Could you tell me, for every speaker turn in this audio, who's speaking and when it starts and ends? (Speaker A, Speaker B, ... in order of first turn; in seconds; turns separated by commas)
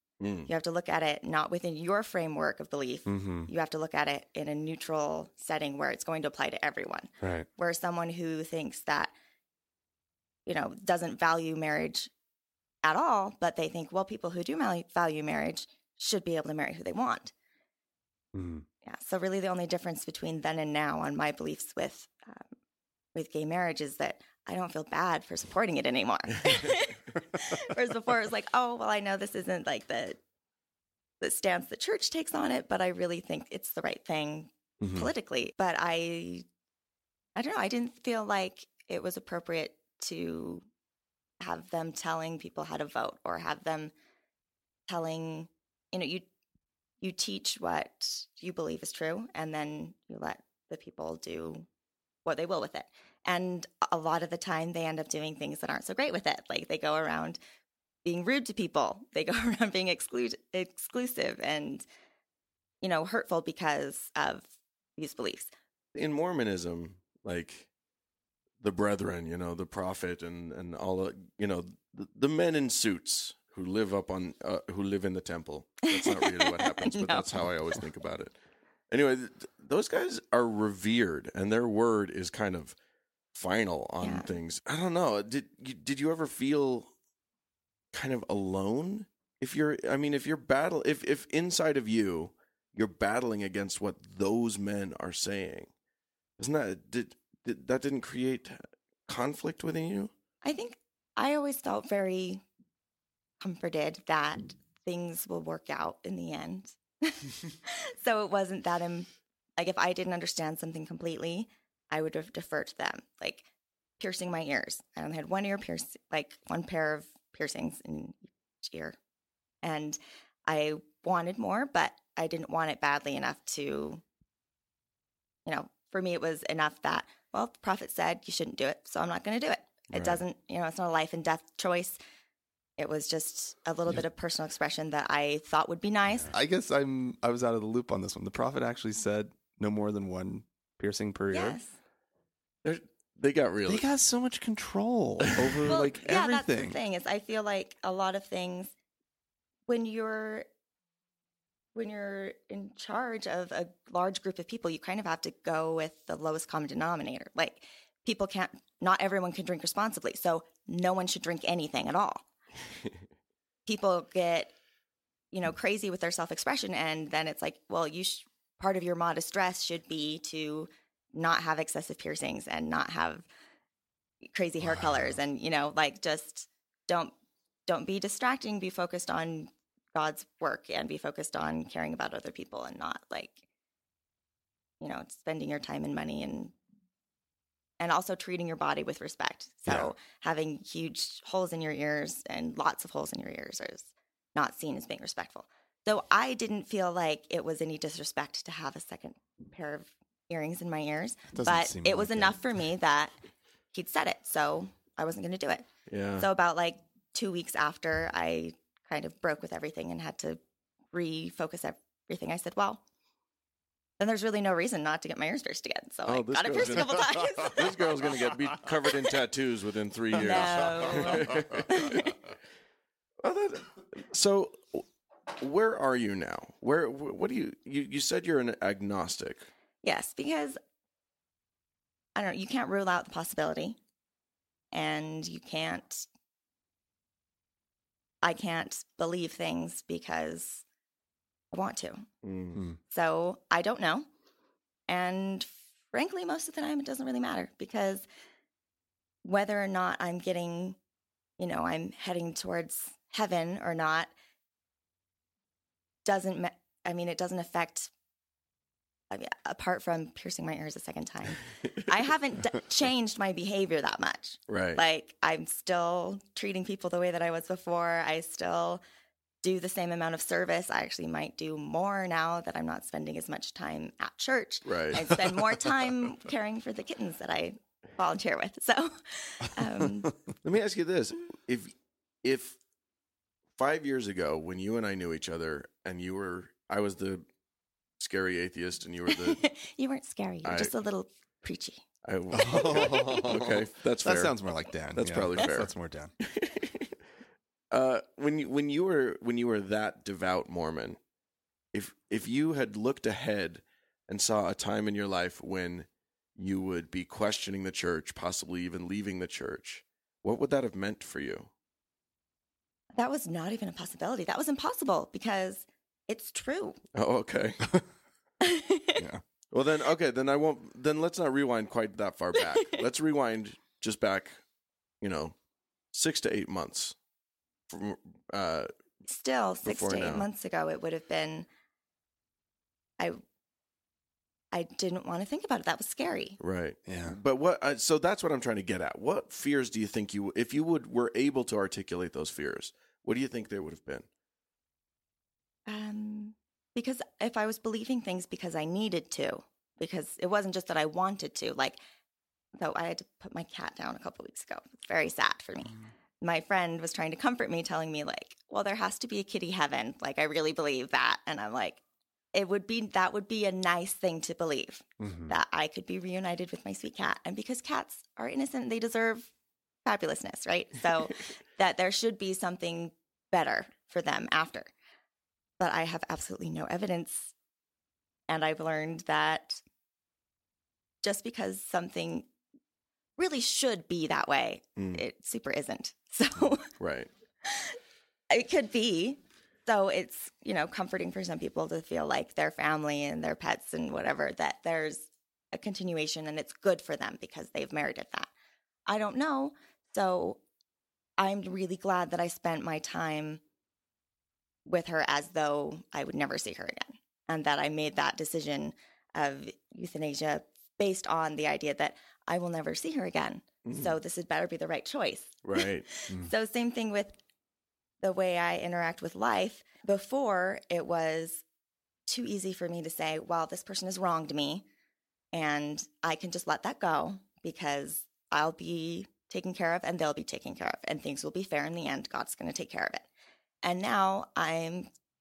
Speaker A: 0.2-0.5, Speaker B: 0.5-9.1, Speaker C: 3.0-3.5, Speaker C: 7.2-7.5, Speaker B: 10.4-12.1, Speaker B: 12.8-17.3, Speaker C: 18.3-18.6, Speaker B: 18.8-22.4, Speaker B: 23.1-30.2, Speaker B: 31.2-36.4, Speaker C: 34.8-35.1, Speaker B: 37.3-40.6, Speaker B: 41.4-43.9, Speaker B: 44.9-46.2, Speaker B: 47.0-51.7, Speaker B: 52.2-57.4, Speaker B: 58.0-61.8, Speaker B: 62.8-65.5, Speaker A: 65.9-67.7, Speaker A: 68.6-78.3, Speaker B: 75.9-77.3, Speaker A: 78.9-82.7, Speaker A: 83.3-86.9, Speaker B: 84.0-84.3, Speaker A: 87.9-95.7, Speaker A: 96.4-100.1, Speaker B: 100.4-102.4, Speaker B: 103.4-113.4, Speaker B: 114.0-119.0, Speaker B: 119.6-124.0, Speaker B: 125.5-132.0, Speaker C: 129.9-130.2, Speaker B: 132.8-136.3, Speaker C: 136.2-141.6, Speaker B: 141.3-141.7, Speaker A: 142.6-143.8, Speaker C: 143.7-146.8, Speaker A: 145.3-145.8, Speaker B: 145.7-148.7, Speaker B: 149.7-150.4, Speaker B: 151.7-162.2, Speaker B: 163.7-164.5, Speaker B: 165.3-173.3, Speaker B: 174.3-177.1, Speaker C: 174.7-175.1, Speaker B: 177.7-183.4, Speaker B: 184.8-186.5, Speaker B: 187.8-203.1, Speaker C: 201.3-202.4, Speaker B: 203.7-205.7, Speaker A: 205.9-206.2, Speaker B: 206.2-210.4, Speaker B: 210.9-212.8, Speaker B: 214.0-218.0, Speaker A: 216.1-222.2, Speaker B: 220.2-222.1, Speaker A: 223.2-224.8, Speaker A: 225.4-229.5, Speaker B: 229.8-230.6, Speaker B: 232.1-233.8, Speaker B: 234.7-236.1, Speaker B: 238.2-240.6, Speaker B: 241.5-242.1, Speaker A: 242.2-242.6, Speaker B: 242.9-244.1, Speaker B: 244.9-248.1, Speaker B: 249.2-250.8, Speaker B: 251.4-254.1, Speaker B: 256.0-257.9, Speaker B: 259.1-268.8, Speaker A: 264.5-264.8, Speaker B: 269.4-280.1, Speaker A: 274.6-275.1, Speaker A: 280.4-282.6, Speaker A: 283.6-287.2, Speaker A: 288.0-289.4, Speaker B: 289.1-291.8, Speaker A: 290.4-290.7, Speaker A: 292.0-294.4, Speaker C: 292.3-296.1, Speaker B: 292.9-293.2, Speaker A: 294.9-296.9, Speaker A: 297.7-301.0, Speaker A: 301.7-311.5, Speaker B: 312.9-316.8, Speaker A: 316.9-317.6, Speaker B: 318.4-319.0, Speaker C: 318.9-319.2, Speaker A: 319.5-324.4, Speaker B: 322.5-322.8, Speaker A: 325.0-325.3, Speaker A: 325.9-326.9, Speaker A: 327.7-328.7, Speaker B: 329.1-331.5, Speaker A: 329.6-330.3, Speaker B: 334.5-336.4, Speaker A: 336.4-344.1, Speaker C: 336.9-337.2, Speaker B: 345.6-351.8, Speaker B: 352.6-361.8, Speaker B: 362.3-369.3, Speaker C: 365.0-365.3, Speaker B: 369.8-374.7, Speaker B: 375.6-377.3, Speaker B: 378.3-379.6, Speaker B: 381.0-382.3, Speaker B: 383.2-386.7, Speaker A: 384.8-385.0, Speaker A: 386.8-387.1, Speaker B: 387.4-387.8, Speaker B: 388.3-398.3, Speaker B: 398.9-400.4, Speaker B: 401.2-403.4, Speaker B: 404.6-417.1, Speaker A: 413.6-414.0, Speaker A: 415.4-415.9, Speaker B: 418.0-421.4, Speaker B: 422.1-424.6, Speaker B: 425.3-433.1, Speaker B: 433.6-434.9